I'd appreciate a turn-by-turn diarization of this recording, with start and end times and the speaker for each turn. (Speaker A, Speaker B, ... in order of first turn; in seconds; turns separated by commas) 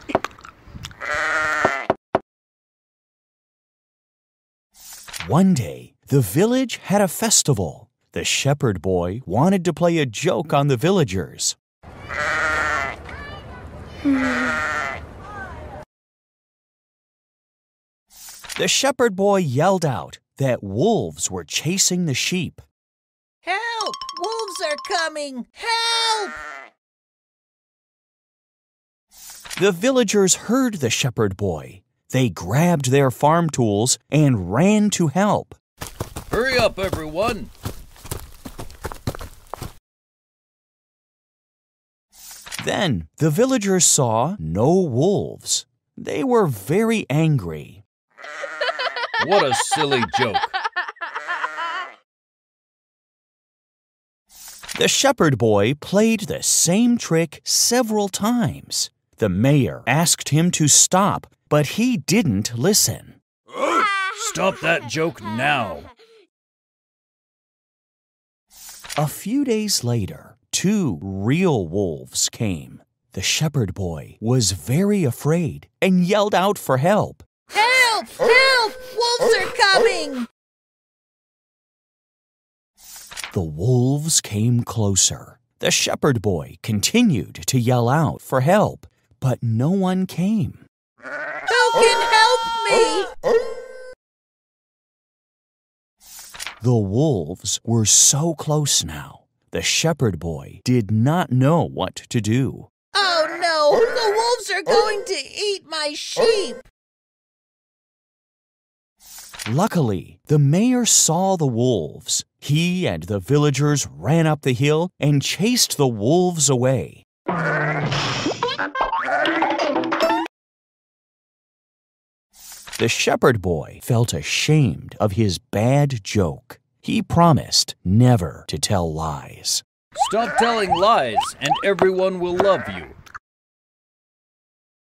Speaker A: 5.2-11.6, Speaker A: 18.6-22.6, Speaker B: 23.4-26.4, Speaker A: 29.6-35.6, Speaker C: 36.3-37.5, Speaker A: 42.6-47.8, Speaker C: 49.2-50.5, Speaker A: 54.7-63.2, Speaker C: 63.8-65.9, Speaker A: 69.0-77.2, Speaker B: 77.5-80.3, Speaker A: 83.3-90.7, Speaker B: 91.5-93.1, Speaker A: 96.6-102.7, Speaker B: 102.9-106.7, Speaker A: 109.5-117.0, Speaker A: 122.8-129.6, Speaker C: 130.0-133.0